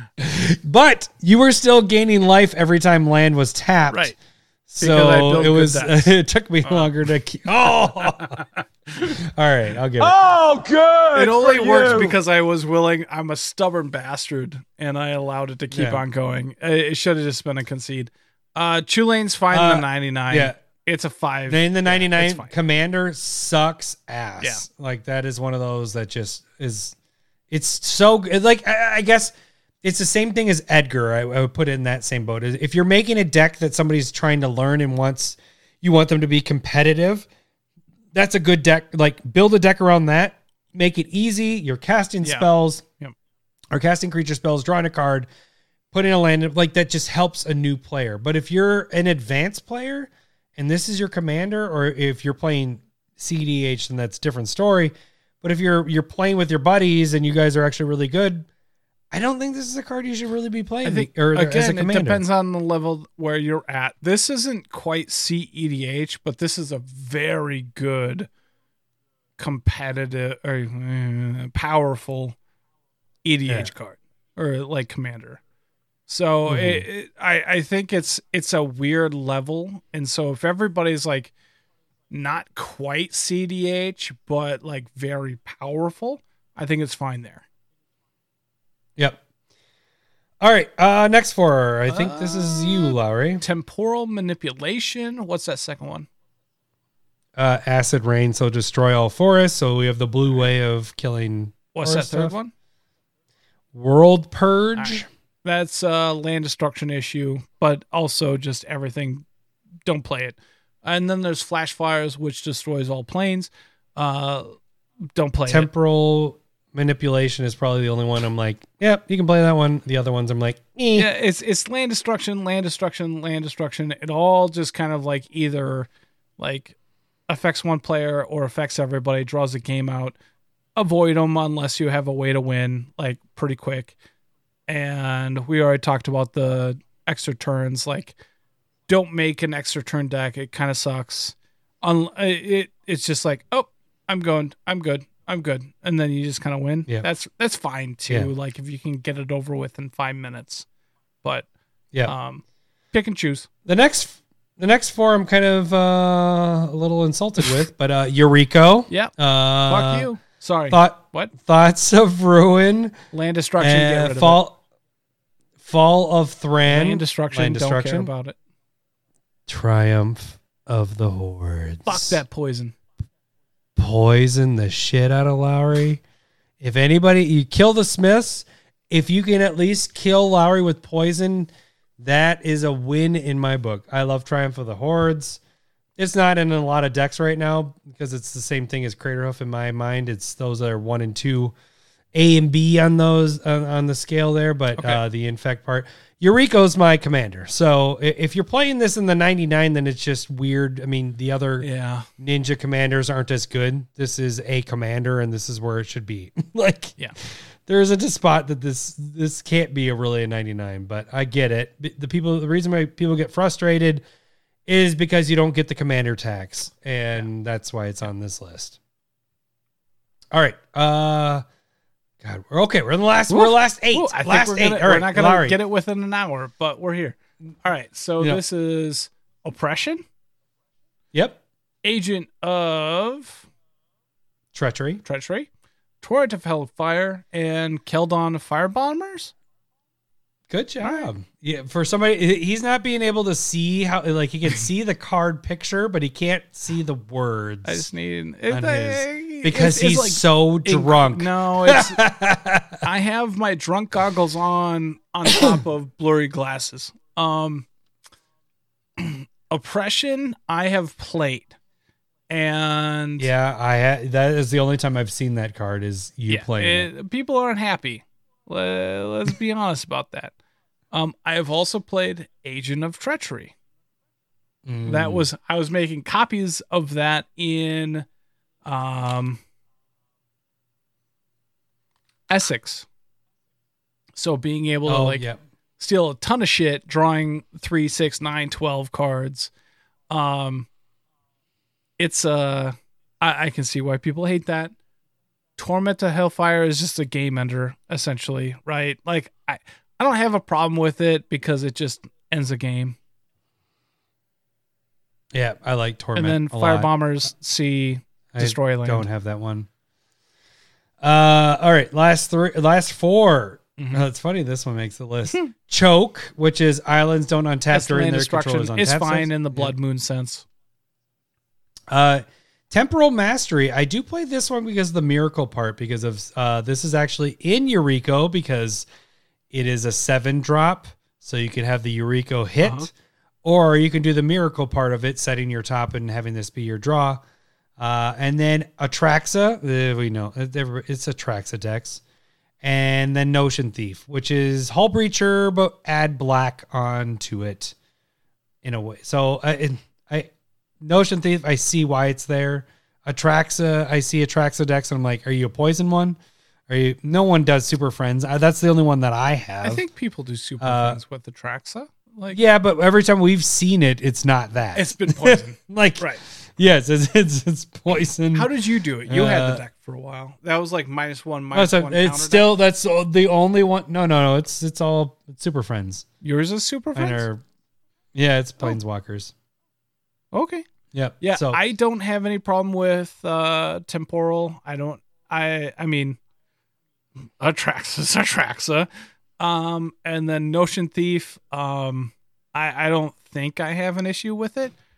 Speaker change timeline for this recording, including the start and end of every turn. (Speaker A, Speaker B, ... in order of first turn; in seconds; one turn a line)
Speaker A: 0.2-4.1
Speaker B: 3.9-4.2
Speaker A: 4.7-8.4
Speaker B: 4.8-6.1
Speaker B: 6.6-6.9
Speaker B: 8.0-8.5
Speaker A: 9.0-10.2
Speaker C: 10.0-12.1
Speaker B: 11.1-22.5
Speaker A: 15.7-16.0
Speaker A: 19.5-20.6
Speaker A: 21.5-27.0
Speaker A: 27.5-37.3
Speaker A: 38.1-42.8
Speaker B: 42.2-43.1
Speaker A: 43.7-45.3
Speaker A: 45.9-58.5
Speaker A: 59.1-62.2
Speaker B: 60.8-68.3
Speaker B: 69.4-72.4
Speaker B: 73.2-75.4
Speaker B: 76.1-81.3
Speaker A: 76.5-76.8
Speaker B: 82.1-87.4
Speaker A: 89.0-89.2
Speaker A: 90.4-93.4
Speaker B: 91.9-96.1
Speaker A: 97.4-102.4
Speaker B: 101.7-102.5
Speaker A: 103.7-105.1
Speaker B: 104.8-109.3
Speaker B: 109.9-114.5
Speaker B: 115.2-115.7
Speaker A: 115.5-121.1
Speaker B: 121.0-126.8
Speaker B: 127.3-130.2
Speaker B: 130.8-133.9
Speaker B: 134.7-138.2
Speaker B: 138.9-150.7
Speaker B: 152.1-153.5
Speaker A: 153.7-160.1
Speaker B: 158.9-159.1
Speaker B: 159.7-161.3
Speaker A: 160.7-163.0
Speaker B: 163.1-164.4
Speaker A: 163.6-164.6
Speaker A: 165.6-168.1
Speaker B: 166.7-168.4
Speaker A: 169.5-172.2
Speaker B: 171.9-172.8
Speaker A: 173.8-176.0
Speaker A: 176.6-185.4
Speaker A: 186.0-191.6
Speaker A: 192.1-201.7
Speaker B: 194.8-195.0
Speaker B: 201.6-202.1
Speaker A: 202.2-214.1
Speaker A: 214.7-218.8
Speaker A: 220.3-221.4
Speaker A: 222.2-225.6
Speaker B: 223.3-230.1
Speaker A: 231.1-231.4
Speaker B: 231.8-233.5
Speaker A: 234.5-235.0
Speaker B: 235.1-235.5
Speaker B: 236.0-239.3
Speaker A: 240.5-247.9
Speaker B: 240.8-241.1
Speaker B: 247.7-252.0
Speaker A: 248.5-252.8
Speaker B: 252.8-257.7
Speaker A: 255.3-255.6
Speaker B: 259.0-261.6
Speaker B: 262.3-263.3
Speaker A: 263.2-266.9
Speaker B: 266.3-270.3
Speaker B: 270.9-273.5
Speaker A: 274.6-275.3
Speaker B: 274.9-278.1
Speaker B: 278.6-279.4
Speaker B: 282.3-282.9
Speaker B: 284.2-285.3
Speaker A: 284.9-285.4
Speaker B: 285.8-289.5
Speaker B: 290.1-290.7
Speaker B: 292.0-294.7
Speaker B: 295.6-303.0
Speaker A: 305.3-306.9
Speaker B: 306.1-309.1
Speaker A: 308.3-309.7
Speaker A: 311.0-319.7
Speaker B: 313.8-314.0
Speaker B: 317.7-320.4
Speaker A: 321.9-328.9
Speaker A: 329.5-332.9
Speaker B: 332.6-332.9
Speaker A: 333.4-337.2
Speaker A: 337.8-342.0
Speaker A: 342.6-347.8
Speaker A: 348.6-350.3
Speaker A: 350.8-356.2
Speaker A: 356.7-359.9
Speaker B: 359.6-362.4
Speaker A: 360.6-361.0
Speaker A: 362.3-368.5
Speaker B: 364.8-366.2
Speaker B: 368.3-372.5
Speaker A: 369.1-369.6
Speaker A: 371.5-376.1
Speaker B: 376.2-377.2
Speaker A: 376.9-377.4
Speaker A: 378.1-379.3
Speaker B: 380.3-380.6
Speaker A: 380.9-381.6
Speaker B: 381.2-386.2
Speaker B: 387.4-394.7